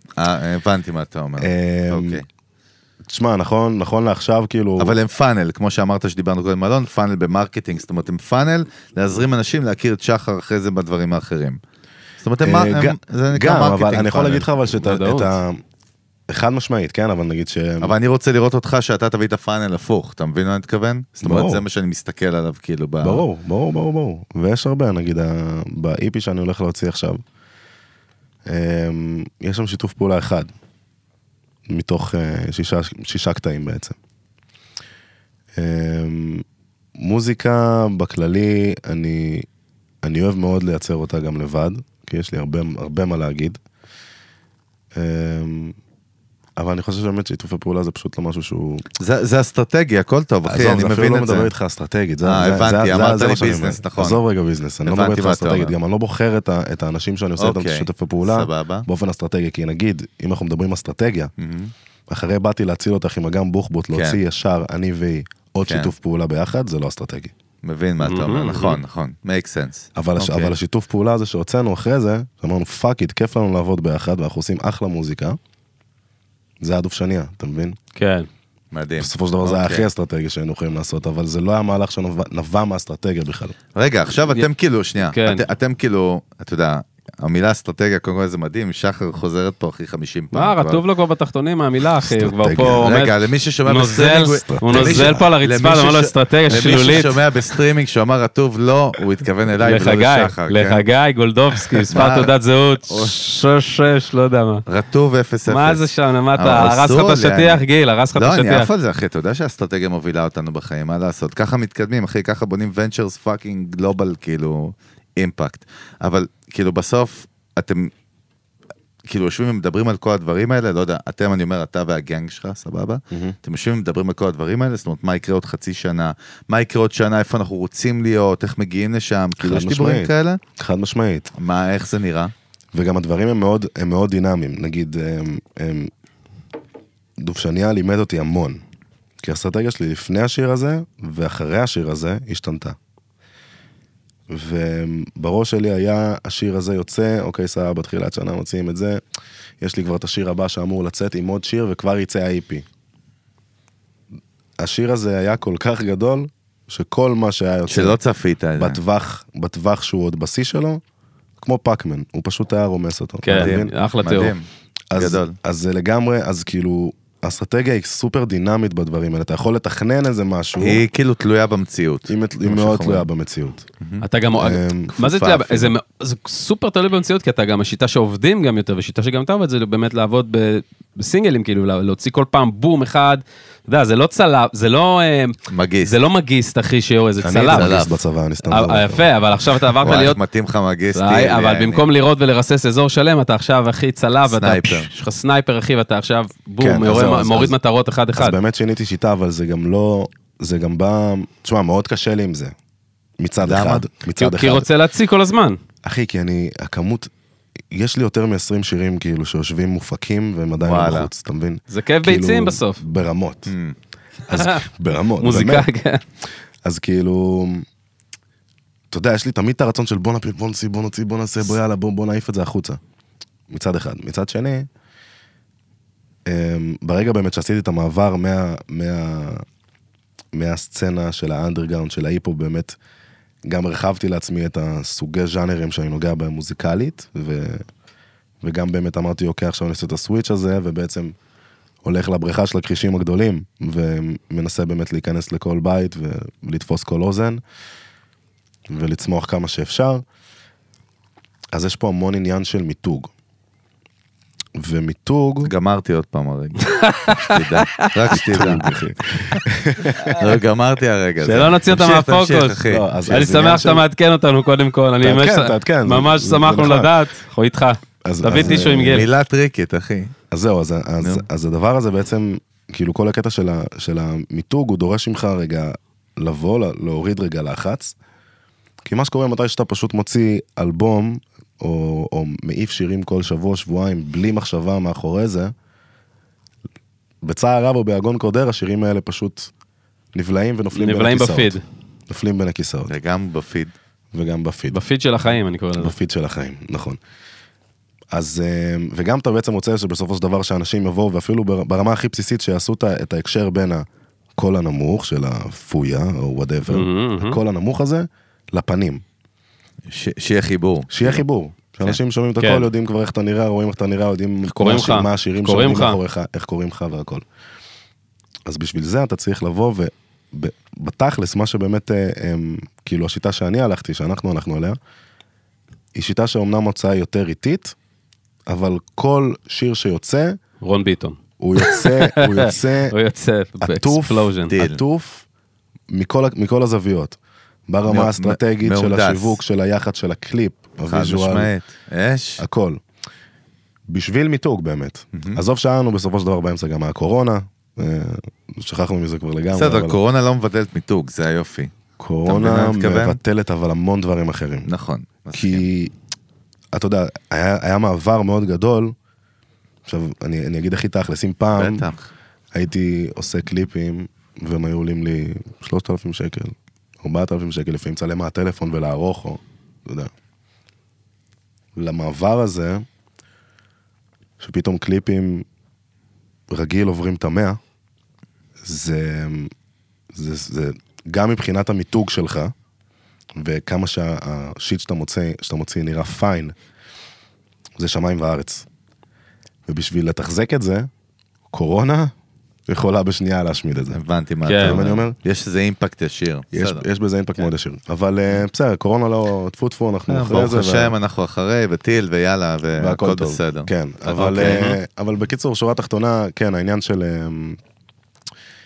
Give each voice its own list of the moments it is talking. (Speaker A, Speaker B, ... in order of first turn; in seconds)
Speaker A: 0.2-2.2, 4.8-11.6, 12.2-14.6, 17.8-23.2, 49.0-51.5, 52.2-54.2, 54.8-55.7, 57.4-58.9, 61.4-61.7, 63.9-64.2, 65.6-65.9, 67.6-70.5, 78.7-79.9, 83.7-90.8, 92.8-100.8, 101.9-102.3, 102.9-103.1, 104.7-105.8, 106.4-107.6, 108.1-117.9, 119.1-130.4, 131.3-132.3, 157.7-158.8, 163.3-165.3, 170.6-173.1, 185.5-186.0, 187.5-187.9, 189.8-191.8, 194.3-194.9, 203.4-203.9, 210.6-211.1, 213.5-213.7, 255.4-258.7, 260.1-262.9, 268.3-270.1, 292.9-293.7, 309.9-311.2, 334.5-334.8, 337.9-339.4, 340.9-342.4, 345.1-345.4, 349.5-351.7, 352.2-353.2, 354.6-355.6, 361.6-362.1, 393.9-396.8, 400.1-404.6
Speaker B: 1.4-2.2, 3.1-5.0, 12.4-15.6, 16.3-17.9, 21.2-21.6, 23.0-27.2, 28.5-30.5, 31.7-34.0, 35.5-36.4, 37.0-39.5, 40.0-43.6, 44.9-45.8, 46.6-48.8, 50.5-61.3, 62.1-67.3, 70.0-75.4, 76.6-77.8, 79.0-83.5, 92.0-92.9, 94.4-95.2, 123.1-123.3, 129.4-131.3, 132.7-135.9, 137.2-138.6, 139.2-142.8, 144.3-149.0, 149.6-152.7, 154.6-158.0, 158.6-160.8, 161.4-163.7, 164.9-170.8, 172.1-173.6, 174.3-175.7, 187.2-189.1, 196.6-197.5, 198.1-202.5, 203.2-204.7, 205.8-207.1, 207.7-213.5, 214.3-215.7, 216.6-217.7, 218.9-222.8, 223.5-224.7, 226.2-229.4, 230.3-232.8, 233.4-237.6, 238.4-241.1, 241.8-247.4, 248.7-250.0, 251.5-253.1, 254.6-255.5, 258.1-260.3, 262.7-263.8, 265.0-267.0, 268.0-269.1, 270.3-277.9, 278.8-285.5, 287.2-289.5, 290.1-291.6, 292.1-292.9, 294.1-294.8, 295.8-297.0, 298.1-303.8, 304.4-309.0, 310.9-317.2, 318.4-324.8, 325.9-327.7, 328.5-330.4, 331.4-332.9, 333.6-335.2, 335.9-337.2, 337.7-341.5, 342.4-342.8, 343.9-350.0, 352.0-354.7, 355.3-355.9, 356.7-358.9, 359.9-361.9, 362.5-370.1, 371.7-372.9, 374.4-375.4, 376.5-377.6, 378.6-379.5, 380.1-382.5, 383.4-386.5, 387.8-388.7, 389.7-390.9, 391.5-392.1, 392.7-394.0, 394.6-395.1, 396.5-400.9, 402.8-407.6
Speaker C: 14.8-15.4, 68.0-68.8, 77.9-78.3, 85.0-85.4, 90.3-93.1, 93.7-97.2, 99.6-104.6, 105.5-108.7, 163.2-164.3, 174.0-187.7, 188.5-190.2, 190.9-198.4, 204.2-205.6, 211.7-212.8, 214.3-214.6, 215.2-216.0, 256.7-258.5, 261.2-269.1, 290.7-291.6, 294.7-295.9, 306.7-307.4, 312.4-312.7, 314.4-316.0, 330.6-334.5, 394.4-394.8, 404.4-404.8